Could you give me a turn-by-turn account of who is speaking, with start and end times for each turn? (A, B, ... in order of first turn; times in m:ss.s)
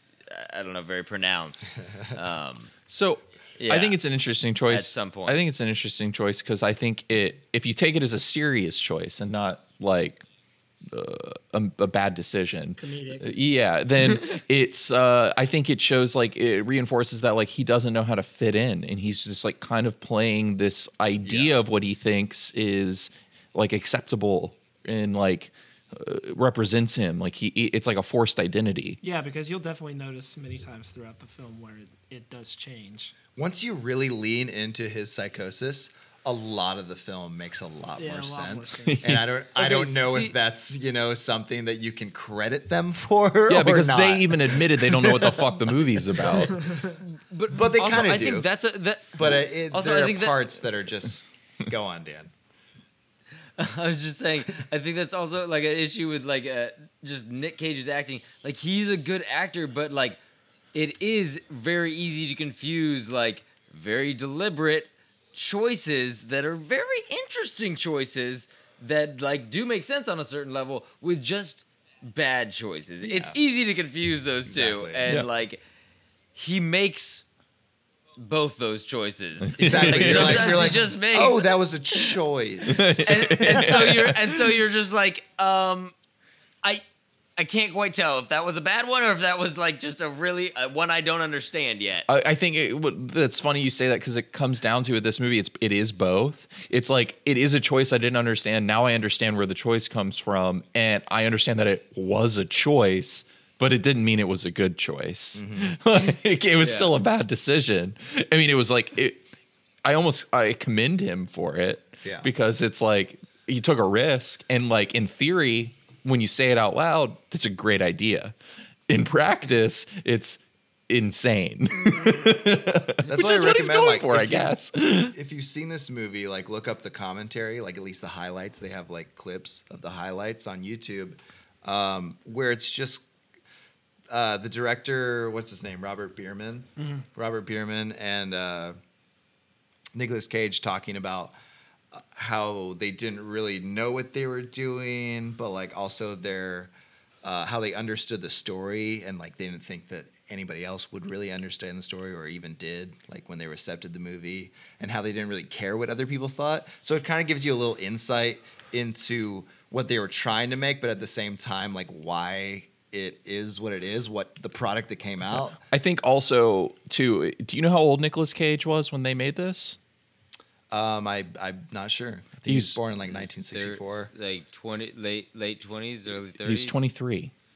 0:00.3-0:02.7 A
0:02.9-0:10.2 B
0:03.6-0:04.0 A
0:04.7-0:05.4 A
0:10.8-0:29.0 B
0:12.8-0:13.3 C
0:21.2-0:21.5 D
0:29.0-0:33.1 C
0:33.3-0:46.6 D
0:38.0-0:39.2 C
0:38.8-0:39.3 B
0:39.5-0:40.4 A
0:43.5-0:46.6 B
0:46.6-0:46.9 C
0:47.1-0:50.4 A
0:47.5-0:48.5 D
0:49.2-0:52.3 D
0:53.6-1:00.2 A
1:00.7-1:15.6 A
1:13.0-1:13.4 D
1:14.5-1:15.1 D
1:16.3-1:17.2 A
1:18.2-1:21.6 A
1:19.4-1:20.7 B
1:19.6-1:23.8 D
1:22.7-1:24.5 B
1:23.0-1:25.9 A
1:27.4-1:32.1 A
1:32.1-1:49.2 B
1:45.3-1:45.8 D
1:46.6-1:46.9 A
1:49.8-1:58.3 B
1:52.0-1:52.3 D
1:58.9-2:05.1 B
2:03.0-2:13.0 D
2:14.1-2:18.8 D
2:19.9-2:21.3 D
2:21.9-2:26.7 D
2:27.2-2:45.6 D
2:45.3-2:49.8 B
2:50.7-2:54.1 D
2:52.4-2:52.8 B
2:53.1-2:56.8 A
2:56.4-2:57.3 B